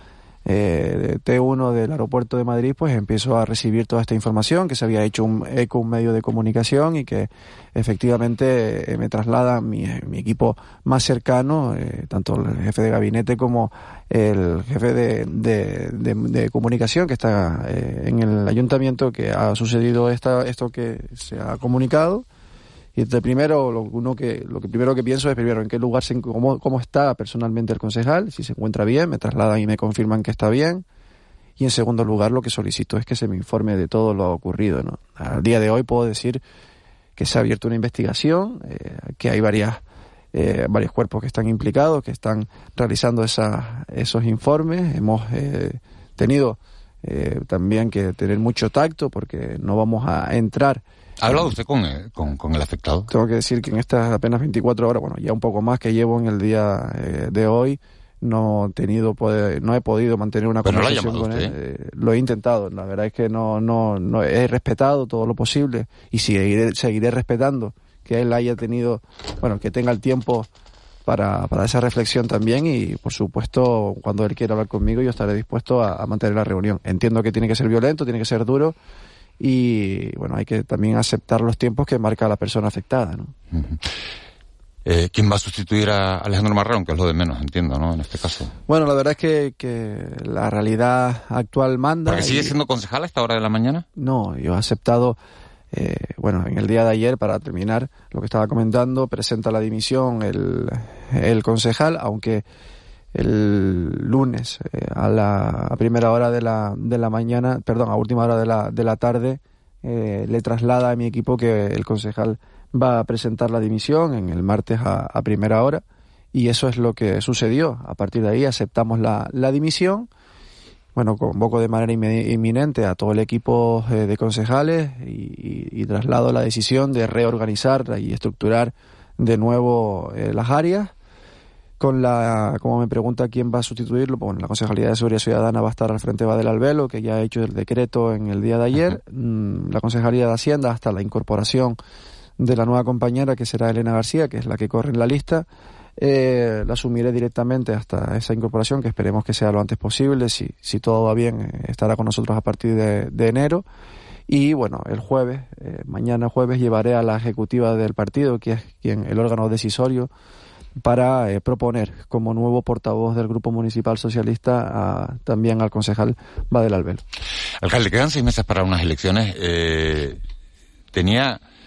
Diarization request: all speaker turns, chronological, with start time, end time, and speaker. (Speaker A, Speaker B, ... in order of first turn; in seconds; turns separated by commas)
Speaker A: 0.5-22.2, Speaker A: 22.9-30.8, Speaker A: 31.6-36.4, Speaker A: 37.2-39.8, Speaker A: 40.3-50.8, Speaker B: 51.2-53.1, Speaker A: 53.1-70.5, Speaker B: 60.6-61.5, Speaker A: 71.0-78.8, Speaker A: 79.4-83.3, Speaker B: 83.5-83.8, Speaker B: 84.8-88.5, Speaker A: 88.7-92.5, Speaker B: 92.1-93.8, Speaker A: 94.0-95.2, Speaker A: 95.7-102.4, Speaker A: 103.1-115.8, Speaker A: 116.3-120.1, Speaker A: 120.9-130.9, Speaker A: 131.8-141.8, Speaker A: 142.4-145.4, Speaker A: 146.0-153.6, Speaker A: 154.3-160.1, Speaker A: 160.8-167.0, Speaker B: 167.6-170.2, Speaker B: 170.9-171.4